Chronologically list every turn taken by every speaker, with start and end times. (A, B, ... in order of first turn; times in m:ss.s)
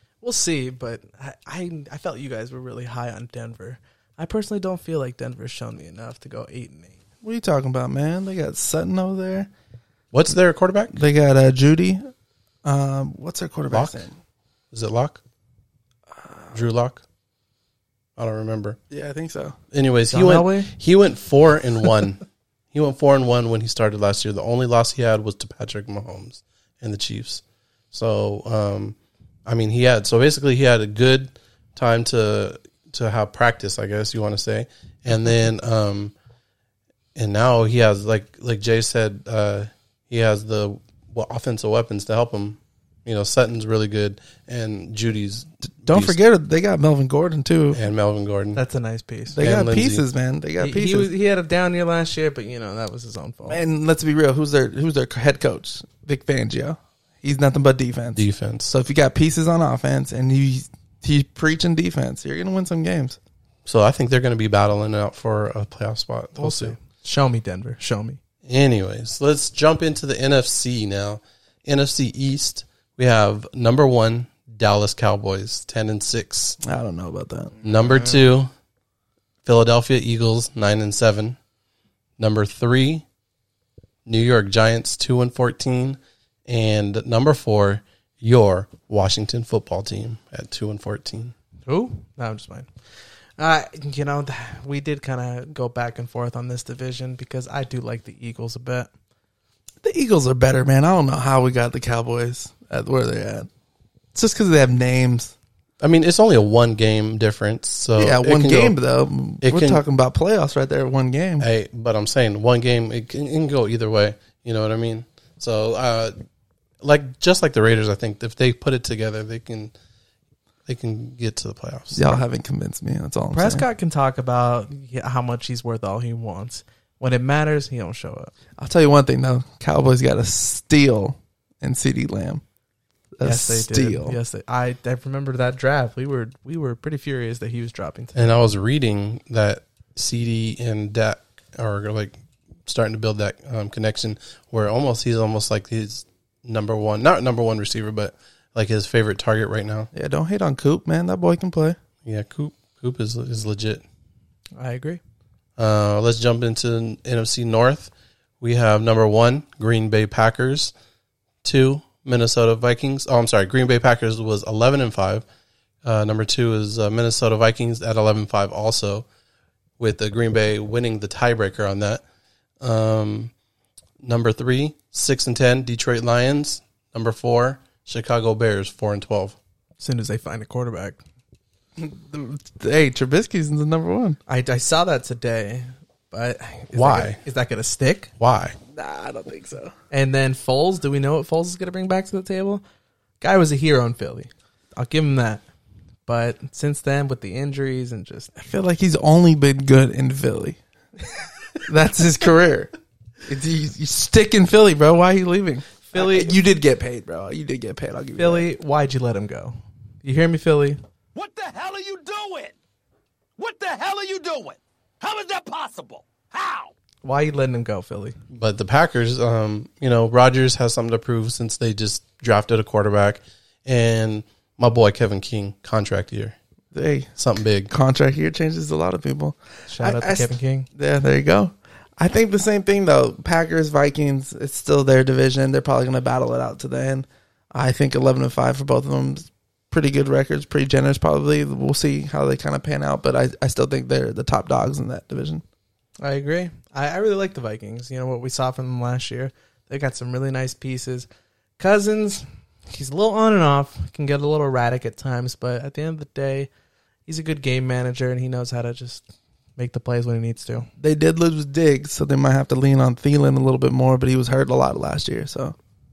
0:00.2-0:07.0 A
0:07.2-0:09.5 B
0:10.1-0:11.0 C
0:10.9-0:12.1 B
0:12.6-0:14.2 B
0:13.7-0:14.0 C
0:14.7-0:15.2 C
0:16.2-0:16.5 B
0:16.5-0:17.0 C
0:18.2-0:18.8 C
0:18.9-0:19.6 B
0:19.7-0:36.1 C
0:20.1-0:20.7 A
0:37.2-0:46.2 C
0:45.8-0:47.8 B
0:47.7-0:48.6 C
0:48.6-0:49.4 A
0:49.3-0:51.1 B
0:49.4-0:50.0 C
0:50.6-0:53.6 A
0:53.5-1:03.2 B
0:58.2-0:58.7 C
1:03.7-1:06.8 C
1:06.4-1:08.2 A
1:08.4-1:16.6 C
1:16.6-1:17.6 B
1:17.6-1:18.5 C
1:19.4-1:21.4 C
1:22.2-1:23.0 C
1:24.1-1:31.3 C
1:31.6-1:38.9 A
1:39.8-1:43.5 B
1:44.1-1:45.3 B
1:45.8-1:48.8 C
1:48.0-1:51.5 B
1:49.4-1:49.8 C
1:51.4-1:56.2 C
1:56.8-1:59.7 C
2:00.7-2:02.2 C
2:01.9-2:03.6 B
2:03.3-2:08.3 A
2:08.6-2:12.4 B
2:13.2-2:14.2 B
2:13.2-2:18.3 A
2:18.2-2:22.2 C
2:22.7-2:29.9 C
2:29.9-2:31.8 B
2:32.0-2:33.8 C
2:34.6-2:35.0 A
2:35.6-2:40.7 C
2:41.4-2:45.2 C
2:45.8-2:49.1 C
2:49.8-2:52.0 C
2:52.6-2:53.3 C
2:54.0-2:59.4 C
2:59.8-3:01.0 A
3:01.8-3:04.2 B
3:04.3-3:08.1 A
3:06.7-3:07.2 C
3:08.2-3:08.6 C
3:08.7-3:09.7 B
3:09.9-3:12.6 A
3:13.2-3:15.4 A
3:16.1-3:18.3 A
3:18.4-3:20.6 B
3:21.6-3:22.7 B
3:23.3-3:28.5 B
3:25.9-3:26.3 A
3:28.2-3:30.8 A
3:31.1-3:32.6 D
3:33.4-3:36.7 D
3:37.0-3:38.2 A
3:38.3-3:46.4 C
3:46.7-3:47.1 B
3:47.2-3:47.7 C
3:47.7-4:05.4 B
3:49.7-3:50.7 A
4:06.0-4:16.5 A
4:17.1-4:20.7 A
4:20.8-4:25.6 B